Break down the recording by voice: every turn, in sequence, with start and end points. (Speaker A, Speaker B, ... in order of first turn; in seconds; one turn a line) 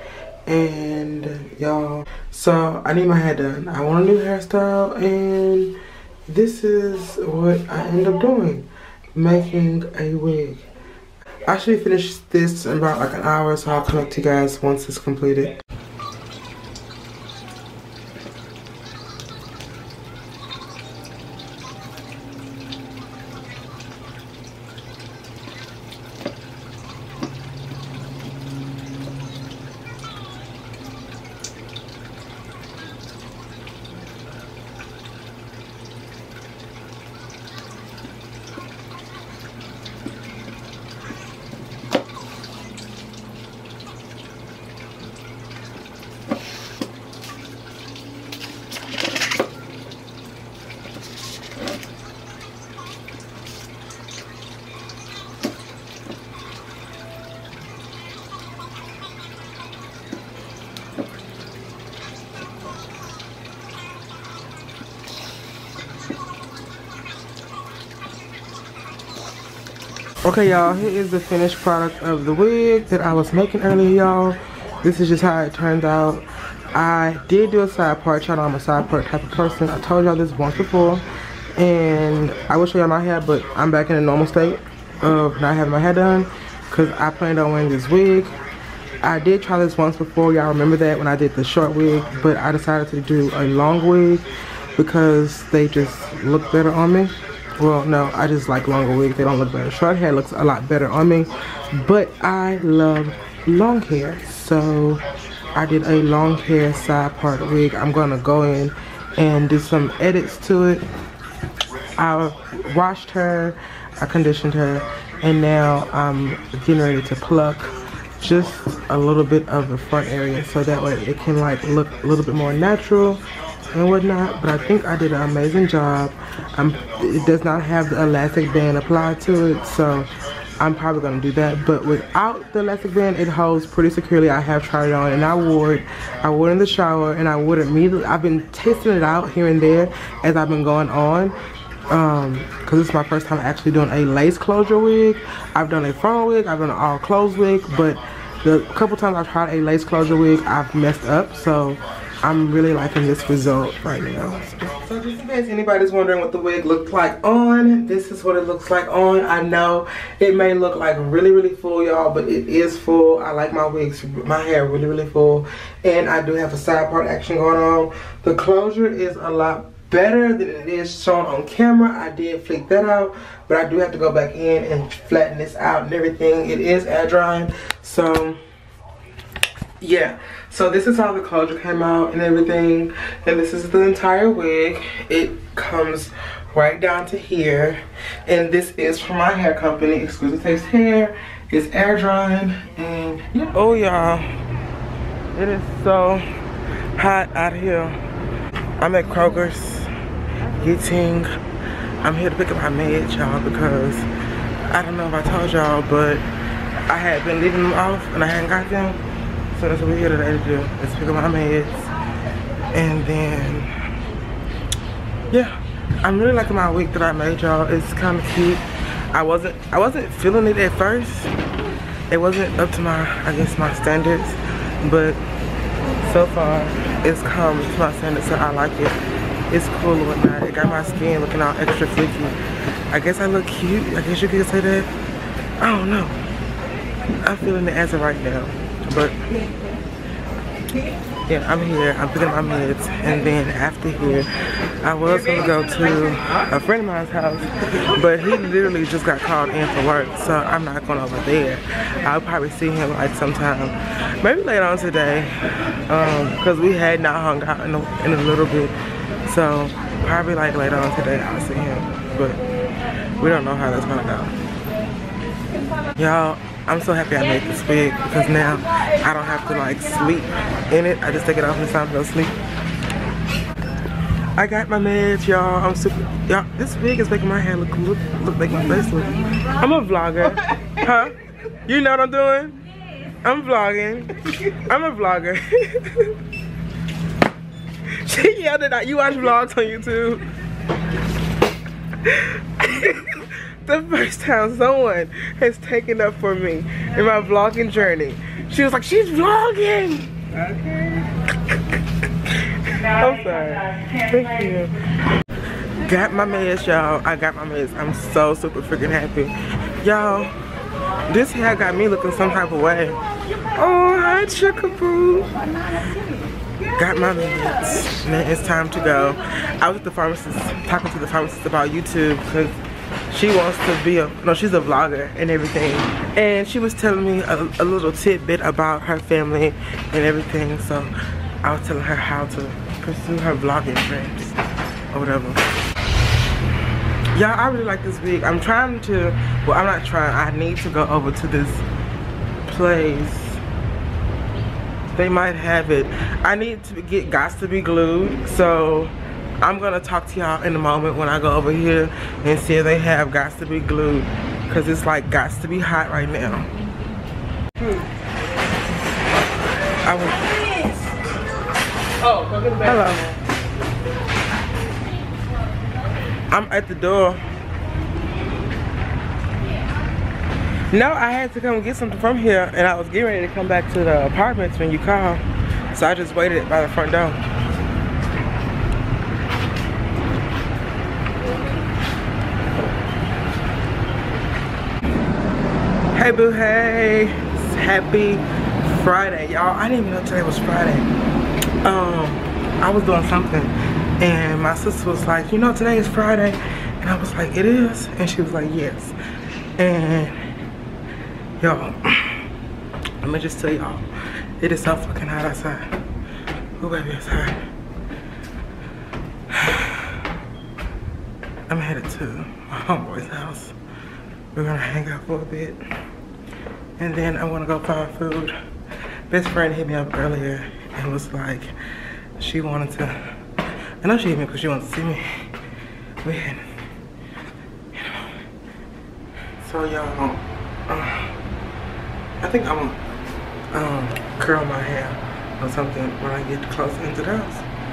Speaker A: 0.5-10.7
Speaker A: 11.5-15.6
Speaker A: 70.2-81.0
Speaker A: 81.6-88.3
Speaker A: 89.0-110.8
Speaker A: 112.0-141.4
Speaker A: 141.9-178.4
Speaker A: 179.8-194.3
Speaker A: 195.3-196.2
Speaker A: 197.0-198.0
Speaker A: 198.8-199.9
Speaker A: 200.5-201.3
Speaker A: 202.0-204.1
Speaker A: 204.7-206.3
Speaker A: 206.9-211.9
Speaker A: 212.7-213.7
Speaker A: 215.3-221.4
Speaker A: 222.1-225.2
Speaker A: 225.9-229.0
Speaker A: 229.5-232.4
Speaker A: 232.9-234.9
Speaker A: 235.6-236.2
Speaker A: 237.2-239.2
Speaker A: 241.3-244.3
Speaker A: 244.8-255.3
Speaker A: 255.9-262.4
Speaker A: 263.2-264.4
Speaker A: 266.0-272.4
Speaker A: 274.4-282.6
Speaker A: 283.2-286.1
Speaker A: 287.9-290.2
Speaker A: 291.9-301.5
Speaker A: 302.2-304.9
Speaker A: 305.7-310.4
Speaker A: 311.1-313.0
Speaker A: 313.5-315.4
Speaker A: 316.7-322.6
Speaker A: 323.1-335.4
Speaker A: 337.1-341.6
Speaker A: 342.5-343.4
Speaker A: 344.9-356.5
Speaker A: 359.8-360.4
Speaker A: 362.4-363.2
Speaker A: 366.3-367.2
Speaker A: 370.7-377.2
Speaker A: 385.9-390.9
Speaker A: 391.6-398.9
Speaker A: 399.6-400.2
Speaker A: 401.4-402.3
Speaker A: 403.0-405.7
Speaker A: 406.6-407.4
Speaker A: 409.3-410.0
Speaker A: 411.5-413.6
Speaker A: 414.3-415.6
Speaker A: 416.8-418.4
Speaker A: 419.1-421.5
Speaker A: 422.2-423.0
Speaker A: 423.8-425.1
Speaker A: 426.0-426.5
Speaker A: 427.7-428.1
Speaker A: 429.4-431.1
Speaker A: 432.2-432.8
Speaker A: 433.5-437.5